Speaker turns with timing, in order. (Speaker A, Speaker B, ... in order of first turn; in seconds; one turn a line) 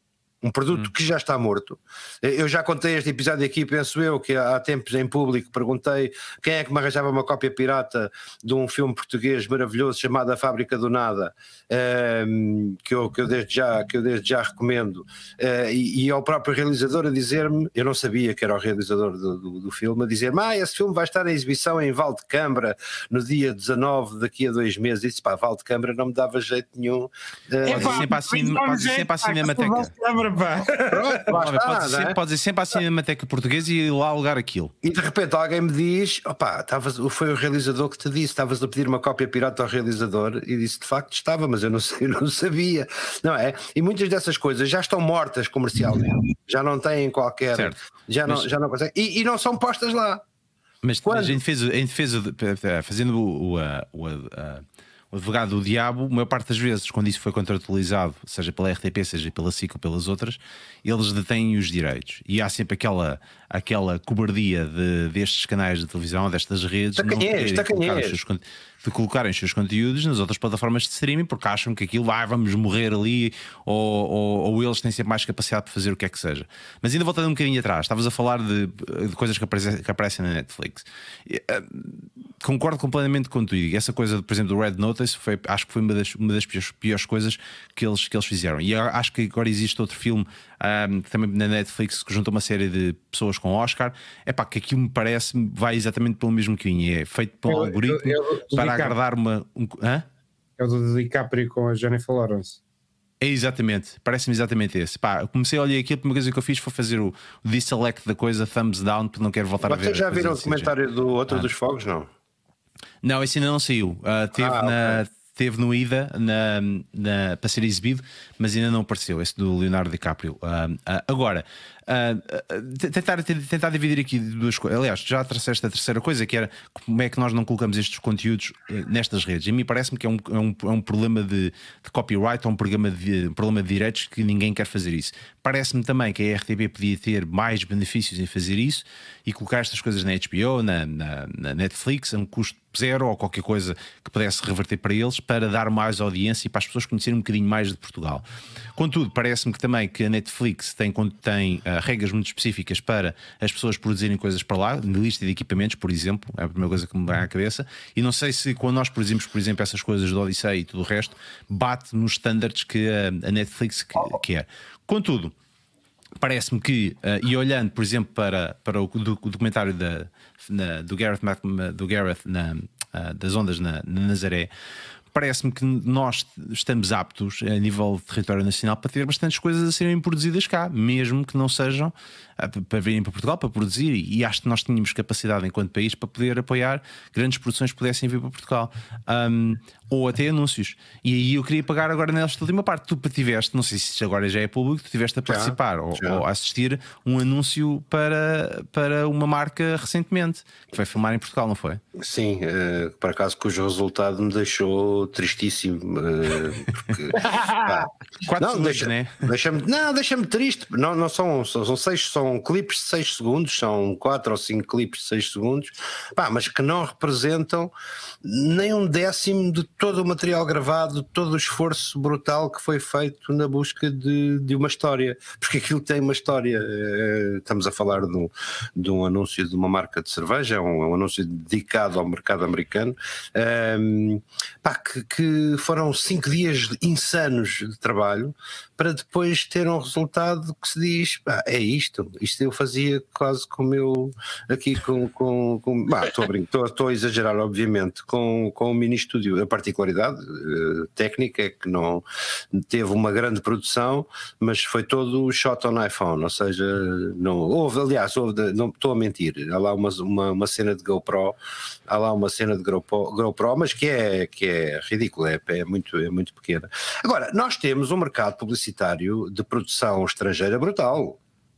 Speaker A: 0.4-28.1
Speaker B: 27.6-31.4
Speaker C: 27.7-29.9
Speaker A: 30.9-32.1
Speaker C: 31.3-34.7
Speaker A: 34.8-50.2
Speaker C: 47.5-48.5
Speaker C: 50.8-100.0
Speaker A: 51.0-51.4
Speaker A: 67.0-68.2
Speaker B: 97.5-99.0
Speaker B: 100.6-102.6
Speaker C: 103.2-110.7
Speaker A: 109.6-112.1
Speaker C: 113.0-148.2
Speaker A: 114.4-115.0
Speaker C: 148.8-165.3
Speaker C: 166.2-174.5
Speaker C: 175.1-201.8
Speaker A: 195.3-196.2
Speaker A: 202.0-217.7
Speaker B: 207.2-207.7
Speaker C: 208.3-209.2
Speaker A: 218.2-271.2